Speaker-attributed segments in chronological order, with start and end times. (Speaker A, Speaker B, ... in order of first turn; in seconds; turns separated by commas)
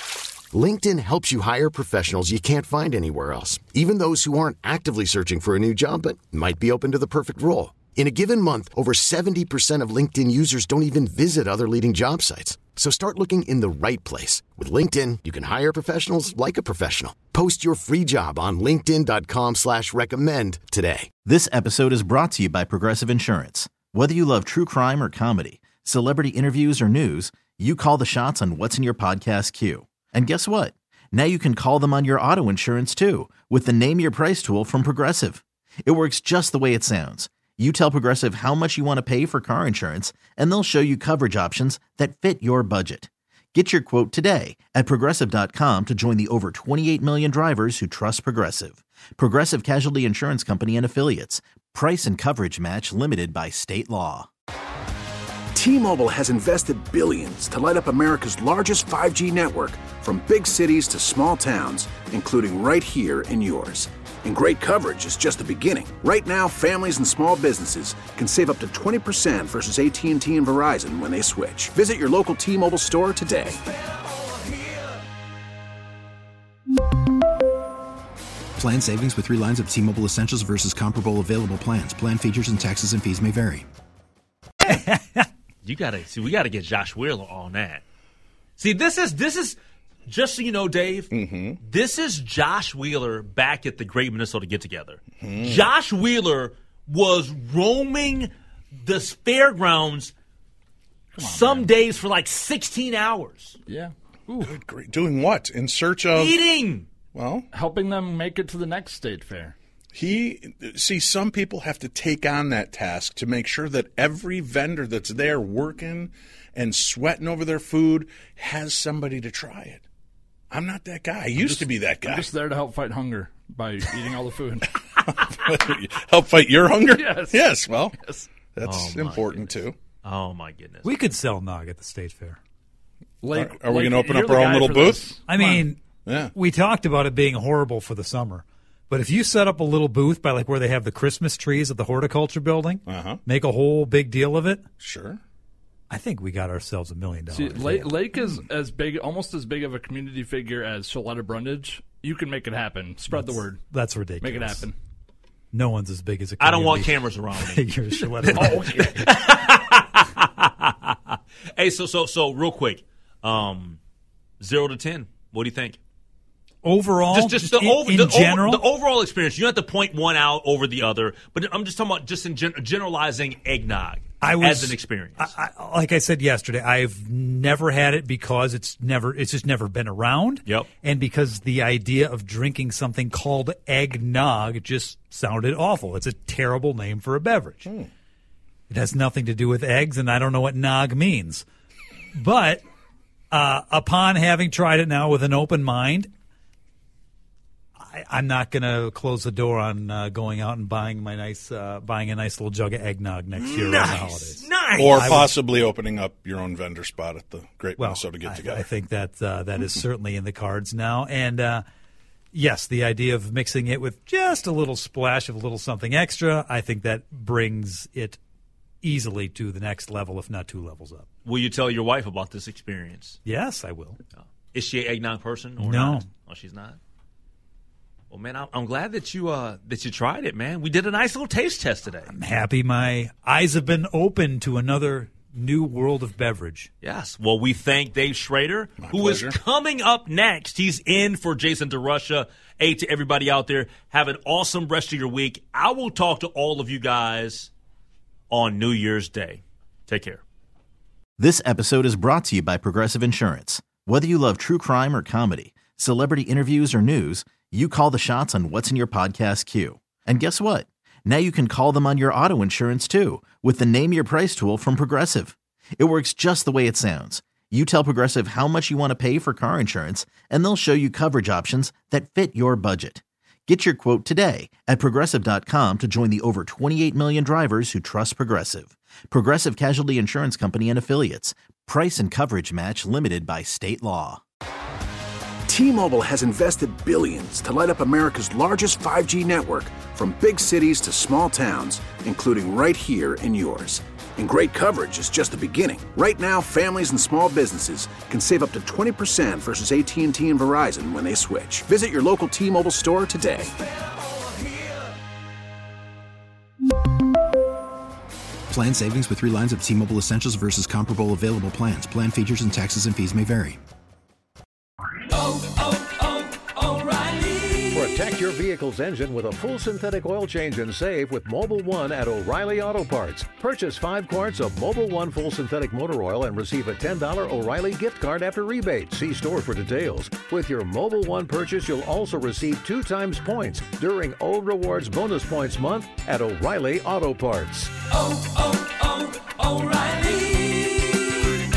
Speaker A: 0.5-21.1, Speaker B: 21.2-54.3, Speaker C: 55.5-73.6, Speaker D: 78.5-83.7, Speaker E: 84.6-85.2, Speaker F: 85.6-87.8, Speaker F: 88.6-100.1, Speaker G: 91.1-91.6, Speaker G: 95.2-95.6, Speaker H: 101.2-101.7, Speaker F: 101.2-103.6, Speaker H: 103.7-104.6, Speaker G: 104.4-106.3, Speaker F: 106.1-106.9, Speaker G: 107.1-107.5, Speaker H: 107.5-109.5, Speaker G: 109.9-119.8, Speaker G: 120.5-122.3, Speaker H: 121.3-124.7, Speaker G: 125.0-129.7, Speaker H: 126.9-128.3, Speaker F: 128.6-130.9, Speaker E: 130.8-132.4, Speaker H: 133.2-135.6, Speaker G: 133.3-135.2, Speaker E: 135.2-135.8, Speaker G: 136.0-136.3, Speaker E: 136.3-144.6, Speaker G: 142.9-143.2, Speaker G: 144.8-145.2, Speaker E: 145.9-148.1, Speaker H: 147.3-153.6, Speaker E: 153.1-154.7, Speaker H: 154.2-154.8, Speaker E: 155.5-158.9, Speaker F: 156.4-157.7, Speaker F: 158.2-163.8, Speaker H: 158.3-159.3, Speaker F: 164.4-165.8, Speaker E: 166.6-168.6, Speaker F: 167.1-175.3, Speaker E: 174.2-187.7, Speaker G: 187.6-187.9, Speaker E: 188.7-191.4, Speaker E: 192.1-192.6, Speaker E: 193.3-196.1, Speaker E: 197.8-205.3, Speaker F: 203.3-205.2, Speaker G: 204.8-208.7, Speaker E: 207.8-211.6, Speaker E: 212.3-218.2, Speaker E: 218.8-221.1, Speaker F: 221.2-223.2, Speaker E: 223.2-224.0, Speaker F: 224.1-226.8, Speaker E: 225.6-226.1, Speaker F: 228.1-232.1, Speaker E: 232.1-236.7, Speaker F: 236.8-247.5, Speaker G: 238.8-239.3, Speaker F: 248.3-250.2, Speaker B: 251.2-284.2, Speaker C: 285.5-303.5, Speaker D: 308.5-313.6, Speaker I: 317.7-337.7, Speaker F: 340.1-340.5